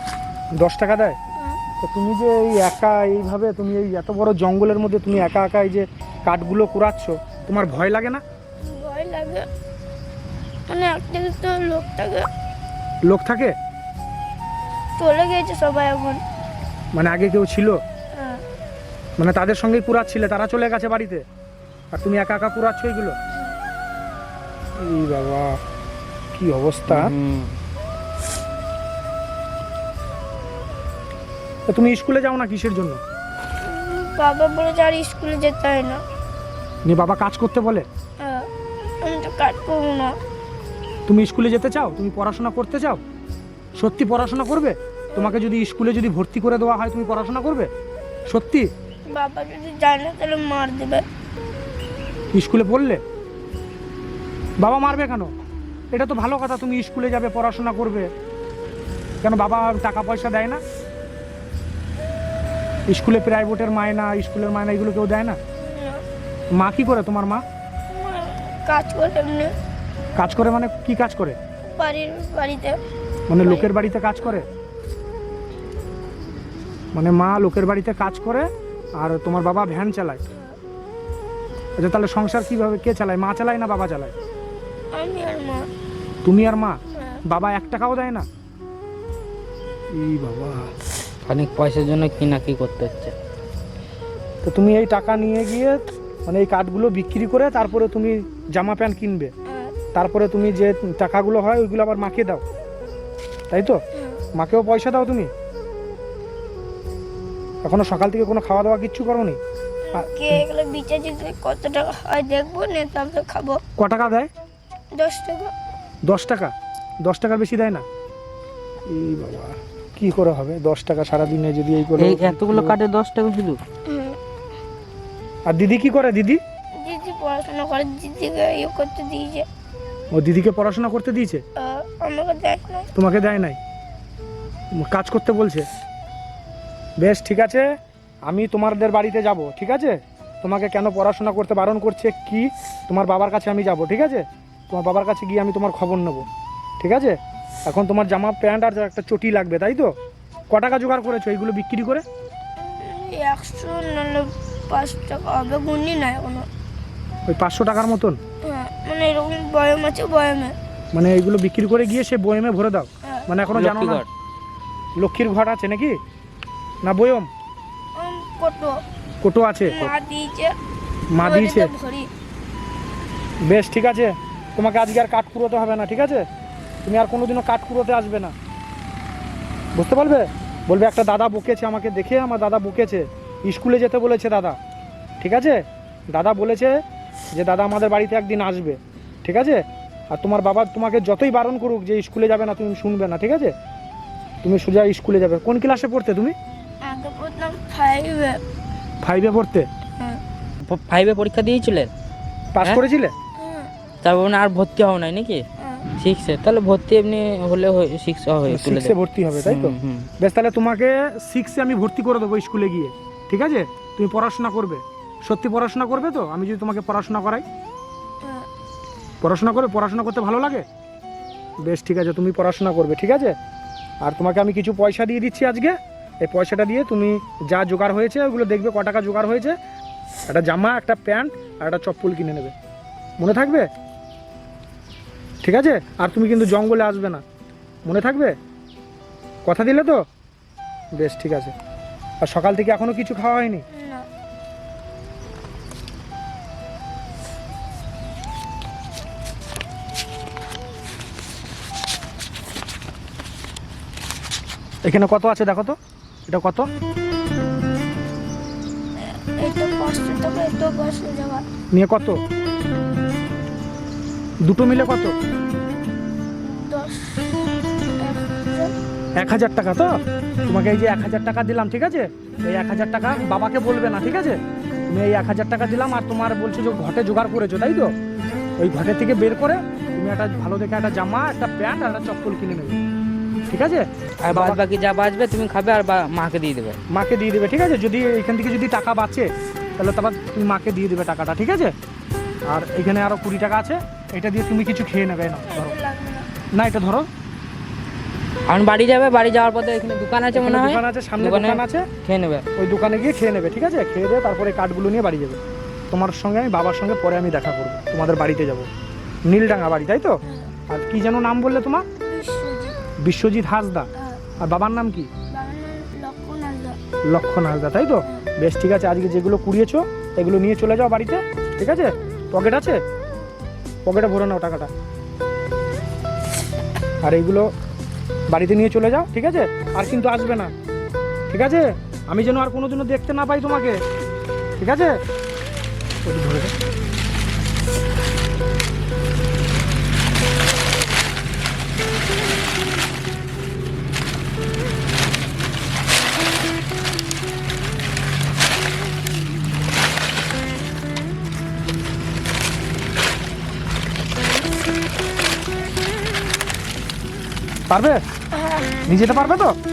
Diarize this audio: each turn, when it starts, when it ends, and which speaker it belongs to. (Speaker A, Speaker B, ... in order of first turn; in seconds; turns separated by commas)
Speaker A: 0.6-1.2, Speaker A: 1.8-8.2, Speaker B: 8.6-9.5, Speaker B: 10.7-12.3, Speaker A: 13.1-13.6, Speaker B: 15.0-16.2, Speaker A: 17.0-17.8, Speaker B: 18.2-18.4, Speaker A: 19.2-21.2, Speaker A: 21.9-23.2, Speaker A: 24.8-25.6, Speaker A: 26.4-27.1, Speaker C: 26.9-27.6, Speaker A: 31.7-33.0, Speaker B: 33.6-36.0, Speaker A: 36.9-37.9, Speaker B: 38.2-38.5, Speaker B: 39.0-40.1, Speaker A: 41.1-43.0, Speaker A: 43.8-47.7, Speaker A: 48.3-48.7, Speaker B: 49.1-51.0, Speaker A: 52.3-53.0, Speaker A: 54.6-55.3, Speaker A: 55.9-58.1, Speaker A: 59.2-60.6, Speaker A: 62.9-65.4, Speaker B: 65.6-66.0, Speaker A: 66.6-67.4, Speaker B: 67.9-69.5, Speaker A: 70.2-71.4, Speaker B: 71.7-72.8, Speaker A: 73.3-74.5, Speaker B: 73.4-73.7, Speaker A: 76.9-80.2, Speaker B: 80.3-80.6, Speaker A: 81.8-84.1, Speaker B: 84.9-85.7, Speaker A: 86.2-88.3, Speaker B: 87.0-87.2, Speaker A: 89.9-90.7, Speaker C: 91.2-93.1, Speaker A: 94.4-99.3, Speaker B: 99.5-99.8, Speaker A: 99.9-102.4, Speaker A: 103.5-103.8, Speaker A: 104.4-105.3, Speaker A: 107.6-109.4, Speaker B: 109.9-113.6, Speaker A: 110.0-110.4, Speaker A: 113.8-114.3, Speaker B: 115.0-115.5, Speaker A: 116.1-116.5, Speaker A: 117.1-117.8, Speaker A: 118.9-122.8, Speaker C: 122.0-123.6, Speaker B: 123.9-124.2, Speaker A: 125.5-126.4, Speaker B: 126.8-129.5, Speaker A: 130.1-131.4, Speaker B: 131.6-132.9, Speaker A: 132.9-133.6, Speaker A: 134.8-135.7, Speaker A: 137.0-137.7, Speaker A: 138.3-146.3, Speaker A: 146.8-147.2, Speaker A: 147.7-149.9, Speaker A: 150.5-152.0, Speaker B: 152.6-156.5, Speaker A: 157.3-158.2, Speaker B: 158.5-160.6, Speaker A: 160.9-164.0, Speaker C: 163.5-164.1, Speaker A: 165.0-166.0, Speaker A: 166.8-167.3, Speaker B: 168.0-168.8, Speaker A: 169.2-169.9, Speaker B: 169.6-170.5, Speaker A: 171.1-171.7, Speaker B: 171.2-172.1, Speaker A: 173.5-176.2, Speaker A: 176.9-178.3, Speaker A: 179.8-184.6, Speaker A: 185.2-185.6, Speaker A: 186.1-186.8, Speaker A: 187.3-193.5, Speaker A: 194.4-196.4, Speaker B: 196.8-198.4, Speaker A: 199.0-199.7, Speaker C: 200.7-201.9, Speaker A: 202.6-203.1, Speaker B: 203.4-203.7, Speaker C: 204.0-205.4, Speaker B: 205.6-205.9, Speaker C: 206.0-210.1, Speaker A: 208.5-217.4, Speaker A: 219.2-220.7, Speaker A: 221.7-223.3, Speaker A: 224.0-229.6, Speaker A: 230.3-232.5, Speaker A: 233.2-233.7, Speaker A: 235.4-237.2, Speaker A: 237.9-238.3, Speaker A: 239.5-240.0, Speaker A: 241.0-241.5, Speaker A: 242.2-243.7, Speaker B: 243.7-244.1, Speaker A: 254.8-256.7, Speaker B: 259.4-261.4, Speaker A: 261.7-262.2, Speaker A: 264.5-265.1, Speaker B: 266.4-267.4, Speaker B: 268.0-268.7, Speaker A: 269.2-269.9, Speaker A: 270.5-277.9, Speaker A: 278.6-282.8, Speaker A: 283.5-284.6, Speaker C: 284.2-286.8, Speaker A: 286.9-291.7, Speaker A: 292.5-295.7, Speaker B: 295.5-296.3, Speaker A: 296.6-297.1, Speaker C: 298.5-302.5, Speaker A: 300.3-301.9, Speaker A: 302.6-305.4, Speaker A: 305.9-308.7, Speaker A: 309.3-311.9, Speaker B: 312.0-312.8, Speaker A: 313.0-313.9, Speaker A: 314.4-315.1, Speaker B: 315.3-316.8, Speaker A: 317.1-322.8, Speaker A: 323.9-324.7, Speaker A: 327.1-327.5, Speaker A: 328.3-330.5, Speaker A: 331.3-333.8, Speaker A: 334.6-335.0, Speaker A: 336.1-336.5, Speaker A: 357.7-358.0, Speaker B: 358.3-358.9, Speaker A: 358.9-359.5